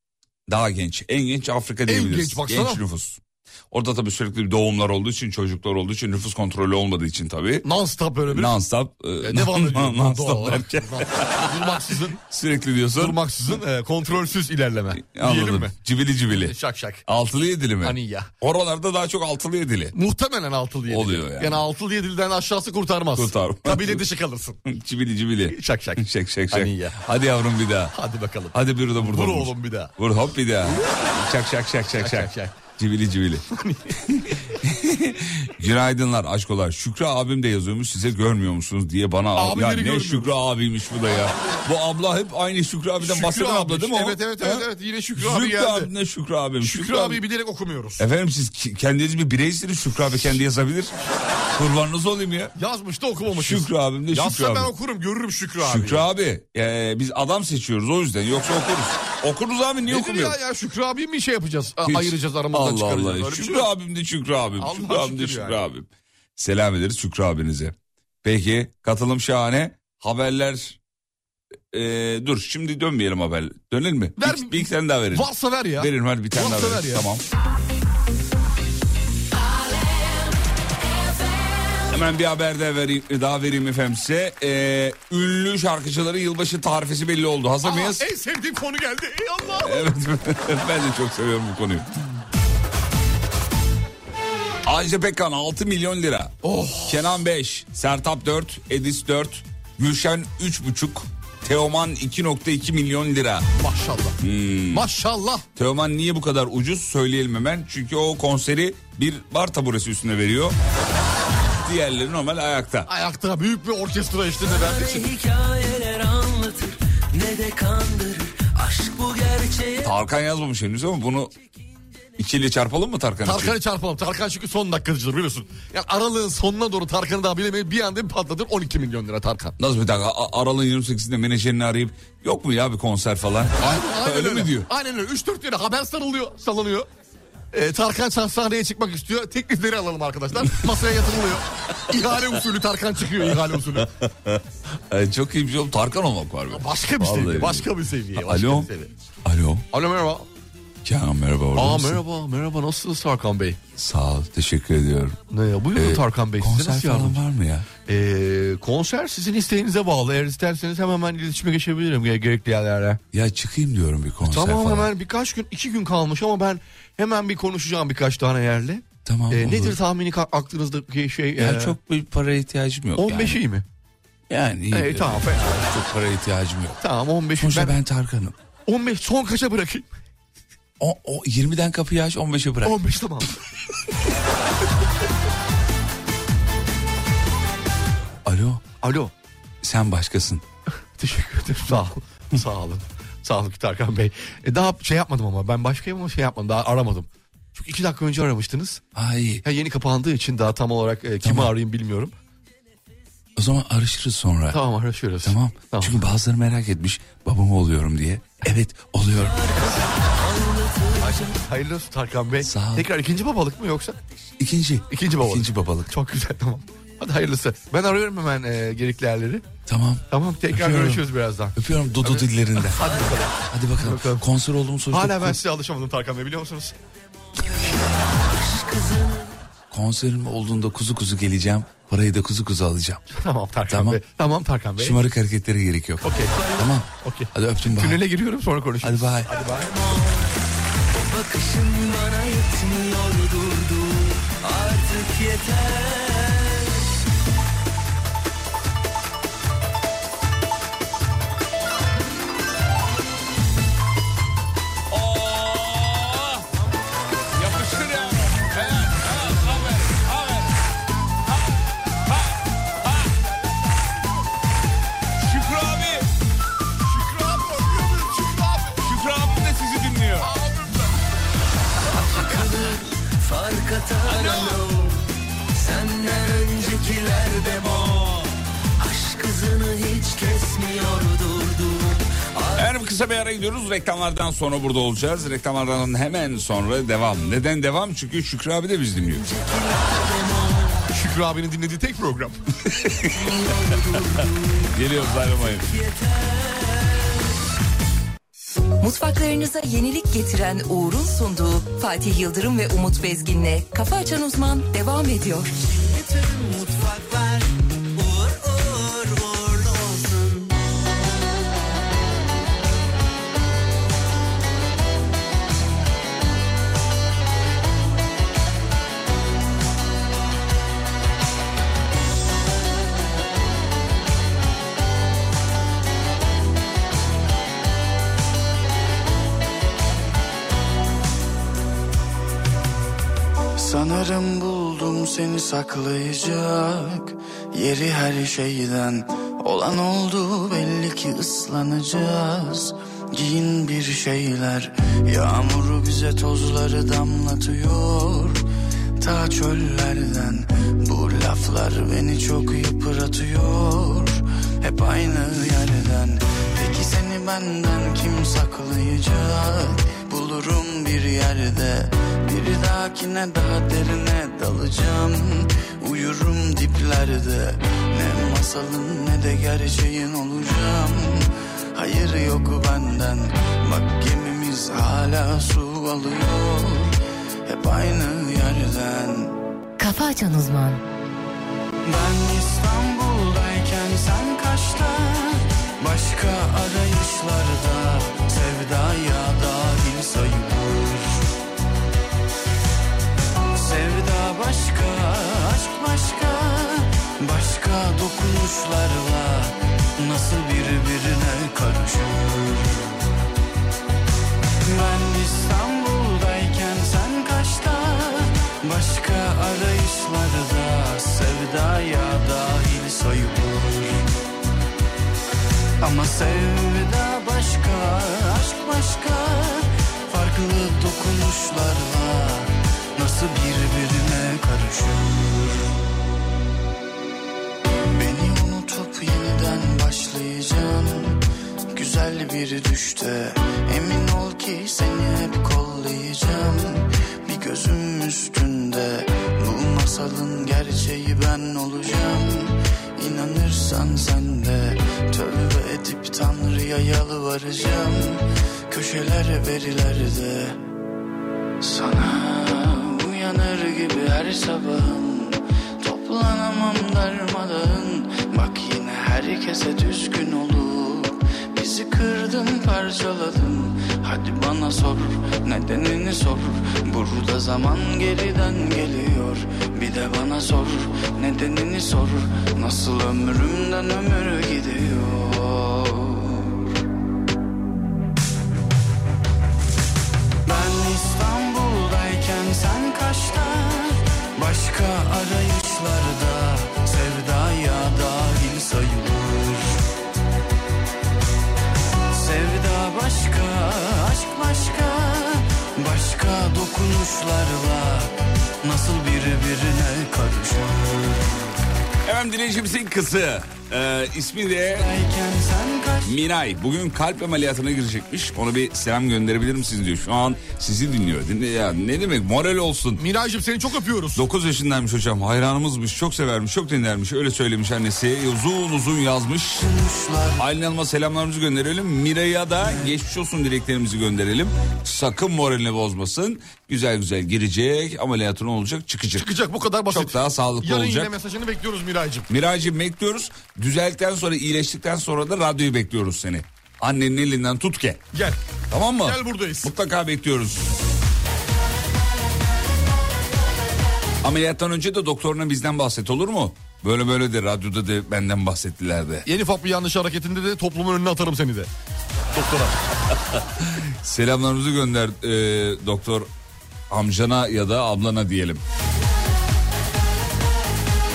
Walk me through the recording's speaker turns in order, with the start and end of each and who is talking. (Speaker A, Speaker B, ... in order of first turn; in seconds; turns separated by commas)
Speaker A: 0.5-7.7, Speaker B: 1.9-2.8, Speaker B: 7.6-8.6, Speaker A: 8.3-13.2, Speaker B: 9.2-12.2, Speaker B: 12.9-15.7, Speaker A: 14.9-16.5, Speaker B: 16.3-17.0, Speaker A: 17.1-19.9, Speaker B: 17.8-18.3, Speaker B: 19.9-24.6, Speaker A: 20.9-21.6, Speaker A: 23.1-24.0, Speaker A: 24.6-27.9, Speaker B: 25.4-27.0, Speaker B: 27.9-29.9, Speaker A: 28.5-33.4, Speaker B: 31.9-32.5, Speaker B: 33.5-34.1, Speaker A: 34.1-47.2, Speaker B: 39.4-40.3, Speaker B: 41.1-41.6, Speaker B: 43.0-45.9, Speaker B: 46.6-48.0, Speaker A: 48.0-50.9, Speaker A: 51.5-52.5, Speaker B: 52.5-56.0, Speaker A: 53.3-54.7, Speaker A: 55.6-60.4, Speaker B: 59.9-63.7, Speaker A: 61.8-70.8, Speaker B: 64.6-65.6, Speaker A: 71.7-77.2, Speaker B: 74.2-77.0, Speaker A: 81.8-88.0, Speaker B: 87.6-89.9, Speaker A: 89.6-92.0, Speaker A: 94.6-96.3, Speaker B: 96.4-97.1, Speaker A: 96.9-103.5, Speaker B: 103.6-104.2, Speaker A: 104.2-104.9, Speaker B: 104.7-105.4, Speaker A: 105.5-110.6, Speaker A: 111.6-112.9, Speaker B: 112.9-115.1, Speaker C: 114.5-119.9, Speaker A: 119.8-121.3, Speaker A: 122.2-123.6, Speaker B: 123.2-129.5, Speaker A: 129.6-134.7, Speaker B: 133.6-136.9, Speaker B: 137.5-143.9, Speaker A: 143.2-148.7, Speaker B: 146.5-148.9, Speaker A: 149.2-149.7, Speaker B: 149.7-150.2, Speaker A: 150.8-152.0, Speaker B: 151.5-153.6, Speaker A: 153.8-155.2, Speaker B: 155.3-157.2, Speaker A: 155.7-157.7, Speaker B: 157.8-163.0, Speaker A: 163.1-164.9, Speaker B: 164.2-171.8, Speaker A: 169.0-169.8, Speaker A: 171.4-173.4, Speaker B: 172.9-173.6, Speaker A: 174.3-176.8, Speaker B: 174.7-175.6, Speaker B: 176.8-177.8, Speaker A: 177.4-178.3, Speaker B: 178.7-179.9, Speaker A: 180.8-182.8, Speaker B: 182.6-183.3, Speaker A: 188.2-188.7, Speaker B: 188.7-189.1, Speaker A: 189.6-190.4, Speaker B: 191.0-198.8, Speaker A: 198.9-199.4, Speaker B: 199.4-202.1, Speaker A: 201.2-201.5, Speaker A: 203.3-204.6, Speaker B: 204.5-206.0, Speaker A: 205.2-209.4, Speaker C: 209.6-211.3, Speaker B: 211.0-213.9, Speaker A: 212.4-212.9, Speaker A: 214.4-215.9, Speaker B: 214.9-219.4, Speaker A: 219.7-221.0, Speaker B: 220.1-224.2, Speaker A: 221.6-225.4, Speaker B: 224.9-226.7, Speaker C: 228.1-229.3, Speaker A: 229.7-233.0, Speaker B: 233.1-234.9, Speaker A: 233.7-234.0, Speaker A: 234.8-238.0, Speaker B: 236.0-236.3, Speaker C: 236.3-236.7, Speaker B: 236.9-239.6, Speaker A: 238.8-239.4, Speaker C: 239.3-240.3, Speaker C: 241.0-246.8, Speaker A: 254.9-256.4, Speaker A: 257.3-260.6, Speaker A: 262.1-263.1, Speaker A: 265.2-266.1, Speaker B: 266.8-268.8, Speaker A: 268.8-270.3, Speaker B: 270.2-270.9, Speaker C: 272.0-274.9, Speaker B: 274.1-274.5, Speaker C: 275.5-282.7, Speaker A: 282.6-289.2, Speaker C: 289.1-290.9, Speaker B: 290.9-292.4, Speaker A: 292.8-293.1, Speaker C: 293.1-297.2, Speaker A: 294.7-295.7, Speaker D: 298.8-305.5, Speaker E: 333.6-348.4, Speaker E: 349.0-379.4, Speaker D: 379.8-380.8, Speaker E: 381.9-391.2, Speaker E: 393.6-403.1, Speaker E: 404.6-414.0, Speaker E: 415.8-425.7, Speaker E: 427.9-431.2, Speaker E: 431.7-450.6, Speaker E: 451.6-476.7, Speaker E: 480.4-489.8, Speaker E: 492.1-501.5, Speaker A: 502.0-504.9, Speaker E: 504.8-506.1, Speaker A: 506.0-513.0, Speaker B: 513.0-514.2, Speaker A: 514.1-519.7, Speaker E: 519.6-520.4, Speaker A: 520.4-529.3, Speaker B: 529.1-532.3, Speaker A: 529.9-531.1, Speaker A: 532.3-538.0, Speaker B: 538.1-538.4, Speaker A: 538.7-540.7, Speaker B: 539.0-539.7, Speaker A: 544.2-549.2, Speaker B: 549.2-551.7, Speaker B: 552.3-552.8, Speaker A: 553.6-556.3, Speaker A: 556.9-558.6